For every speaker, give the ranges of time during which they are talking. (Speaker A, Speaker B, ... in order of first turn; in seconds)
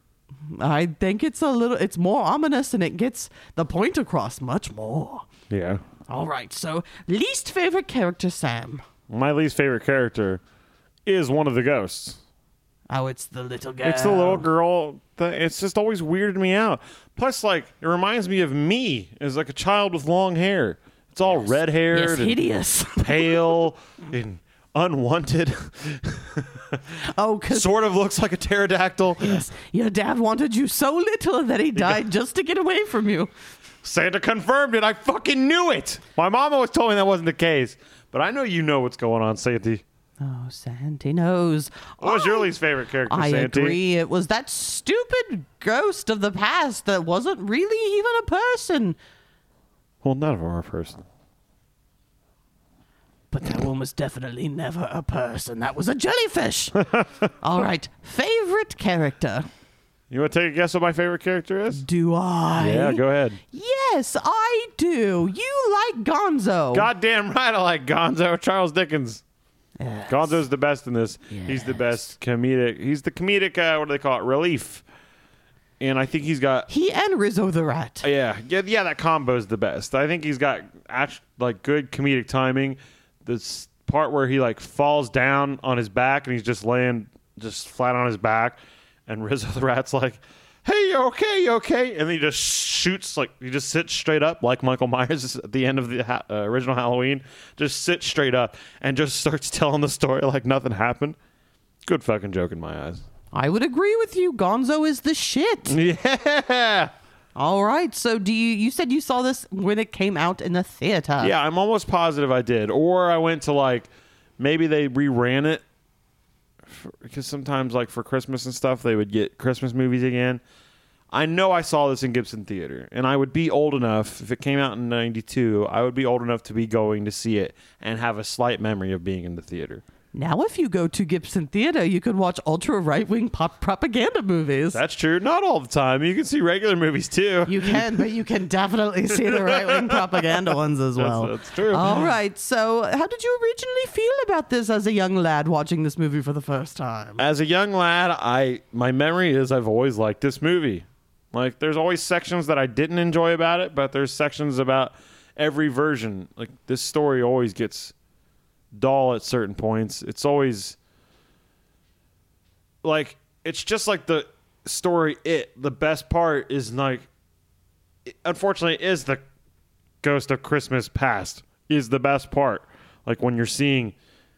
Speaker A: 0.5-5.3, 6.1-8.8, 12.9-14.5, 21.9-23.7, 27.1-27.7, 29.2-33.3, 40.2-42.5, 43.1-49.0, 53.3-56.8, 57.4-59.5, 61.7-66.9, 69.8-70.4, 71.3-72.1, 76.7-78.1, 103.3-105.8, 107.3-111.3, 130.1-134.8, 137.5-147.2
Speaker B: 5.5-5.8, 9.1-10.4, 11.1-12.2, 13.8-22.4, 23.0-26.9, 27.5-29.4, 31.8-32.0, 33.8-39.8, 42.0-43.8, 50.0-51.0, 56.8-57.2, 60.1-61.8, 62.6-63.4, 66.7-69.2, 70.1-74.8, 75.8-76.7, 78.0-101.2, 101.8-103.0, 105.7-106.9, 111.2-115.6, 116.6-120.4, 121.1-129.8, 134.7-138.1, 139.1-142.1, 147.2-157.9, 158.7-160.8, 162.8-167.1, 168.1-169.2, 170.0-173.9